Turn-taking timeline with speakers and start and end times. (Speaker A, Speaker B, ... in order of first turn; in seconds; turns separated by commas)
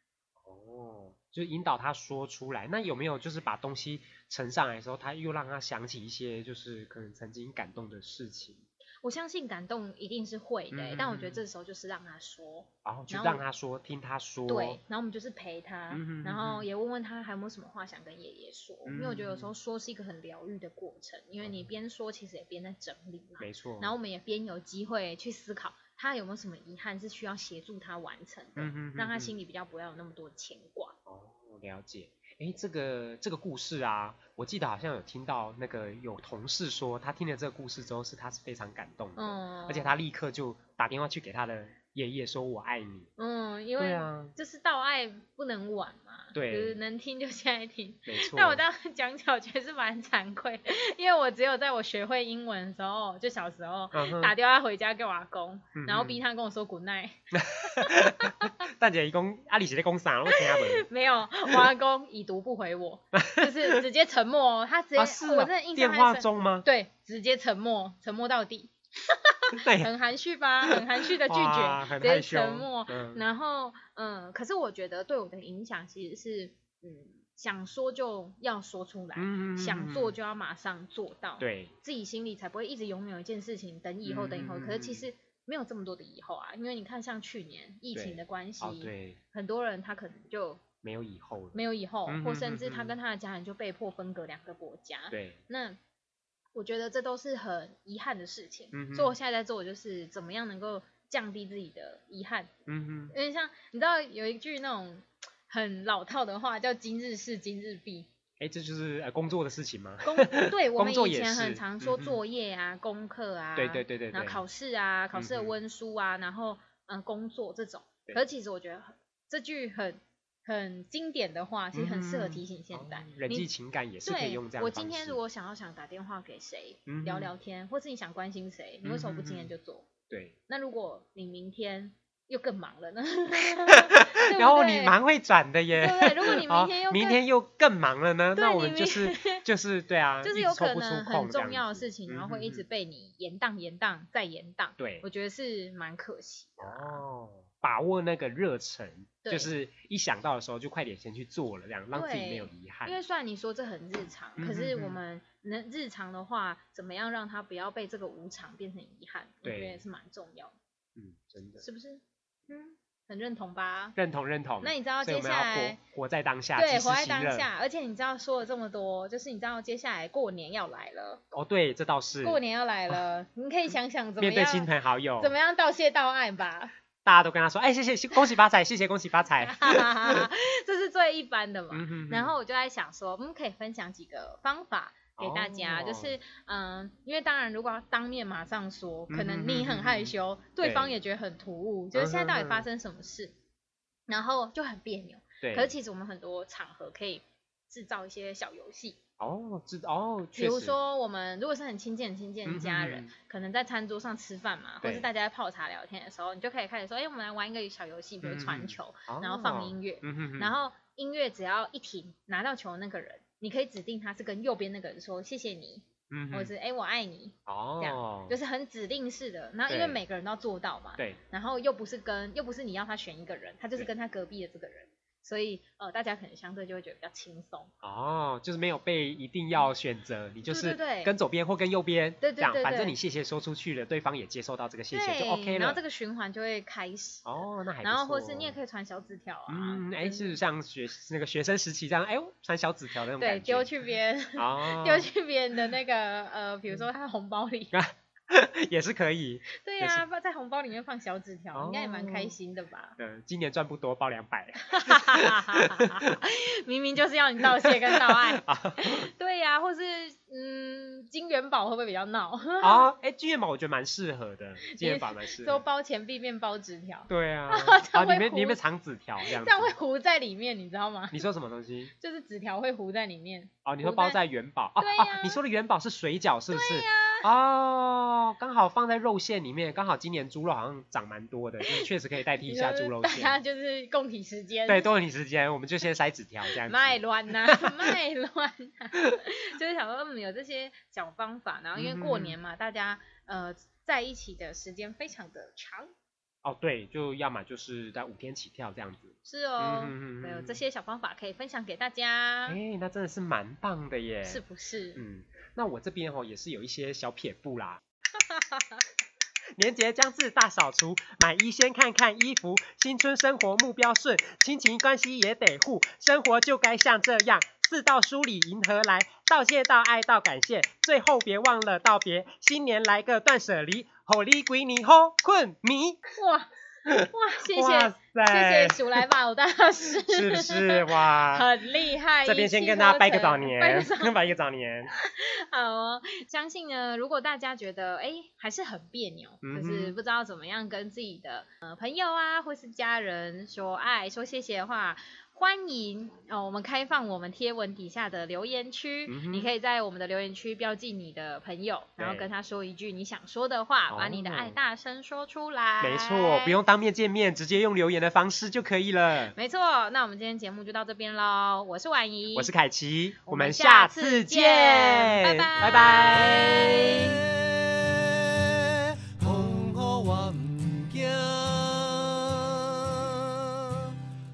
Speaker A: 0.4-8.7, Speaker B: 9.0-13.4, Speaker A: 10.7-11.4, Speaker A: 12.8-14.8, Speaker B: 14.5-31.0, Speaker A: 15.9-16.7, Speaker A: 18.8-19.5, Speaker A: 21.4-21.7, Speaker A: 23.4-23.9, Speaker A: 28.6-29.3, Speaker A: 31.1-43.1, Speaker B: 39.1-40.0, Speaker B: 43.2-58.5, Speaker A: 43.8-44.3, Speaker A: 46.3-46.8, Speaker A: 48.0-48.6, Speaker A: 53.9-54.3, Speaker A: 55.8-56.2, Speaker A: 57.3-60.9, Speaker B: 60.3-90.6, Speaker A: 63.1-63.8, Speaker A: 65.0-66.7, Speaker A: 69.5-69.9, Speaker A: 70.6-73.2, Speaker A: 79.1-80.2, Speaker A: 81.4-81.7, Speaker A: 84.0-85.1, Speaker A: 87.9-89.2, Speaker A: 90.8-93.0, Speaker B: 91.5-95.8, Speaker A: 95.1-95.4, Speaker B: 96.5-102.5, Speaker A: 98.7-99.1, Speaker A: 102.7-103.1, Speaker B: 103.1-108.1, Speaker A: 108.4-112.2, Speaker B: 110.0-123.5, Speaker A: 113.5-114.4, Speaker A: 115.1-115.5, Speaker A: 121.7-125.2, Speaker B: 124.0-129.9, Speaker A: 126.9-127.3, Speaker A: 128.8-129.5, Speaker A: 130.1-130.4, Speaker B: 130.5-134.9, Speaker A: 133.7-142.6, Speaker B: 135.7-137.2, Speaker B: 138.3-139.4, Speaker B: 140.2-147.0, Speaker A: 144.8-145.1, Speaker A: 146.6-152.9, Speaker B: 149.2-149.5, Speaker B: 151.9-160.6, Speaker A: 154.4-155.0, Speaker A: 159.4-159.8, Speaker A: 160.9-161.6, Speaker B: 161.6-164.0, Speaker A: 163.9-167.5, Speaker B: 164.6-165.8, Speaker B: 166.5-171.2, Speaker A: 171.3-173.0, Speaker B: 172.2-176.7, Speaker A: 174.2-175.3, Speaker A: 177.0-180.3, Speaker B: 179.4-193.3, Speaker A: 181.7-182.3, Speaker A: 185.2-186.2, Speaker A: 189.1-190.9, Speaker A: 191.9-192.7, Speaker B: 194.1-199.0, Speaker A: 195.4-195.7, Speaker A: 199.2-200.8, Speaker B: 200.3-227.7, Speaker A: 202.4-203.1, Speaker A: 204.8-205.1, Speaker A: 208.2-210.5, Speaker A: 216.1-216.5, Speaker A: 217.4-218.3, Speaker A: 219.7-220.0, Speaker A: 227.8-235.8, Speaker B: 230.4-231.1, Speaker B: 232.2-232.9, Speaker B: 234.9-240.4, Speaker A: 237.2-238.6, Speaker A: 239.5-243.7, Speaker B: 243.1-247.7, Speaker A: 244.3-245.1, Speaker A: 247.7-250.0, Speaker B: 249.6-253.0, Speaker A: 251.5-252.3, Speaker A: 253.0-256.1, Speaker B: 254.6-262.9, Speaker A: 257.6-259.1, Speaker A: 262.6-265.6, Speaker B: 264.6-268.6, Speaker A: 267.1-269.7, Speaker B: 269.2-271.2, Speaker A: 271.1-271.9, Speaker B: 271.9-274.2, Speaker A: 273.6-283.3, Speaker B: 274.8-275.4, Speaker B: 276.5-277.3, Speaker B: 282.4-284.9, Speaker A: 284.7-287.9, Speaker B: 286.5-295.9, Speaker A: 291.7-292.4, Speaker A: 296.4-300.6, Speaker B: 299.2-302.6, Speaker A: 302.5-304.4, Speaker B: 304.2-305.0, Speaker A: 304.9-307.8, Speaker B: 308.2-308.8, Speaker A: 309.6-326.0, Speaker B: 326.1-334.2, Speaker A: 326.9-329.1, Speaker A: 330.1-331.5, Speaker A: 332.2-334.9, Speaker B: 334.9-356.6, Speaker A: 339.4-339.9, Speaker A: 349.1-349.5, Speaker A: 352.0-352.3, Speaker A: 353.9-354.6, Speaker A: 355.8-359.3, Speaker B: 359.3-362.5, Speaker A: 362.3-367.1, Speaker B: 363.2-367.0, Speaker C: 366.2-373.9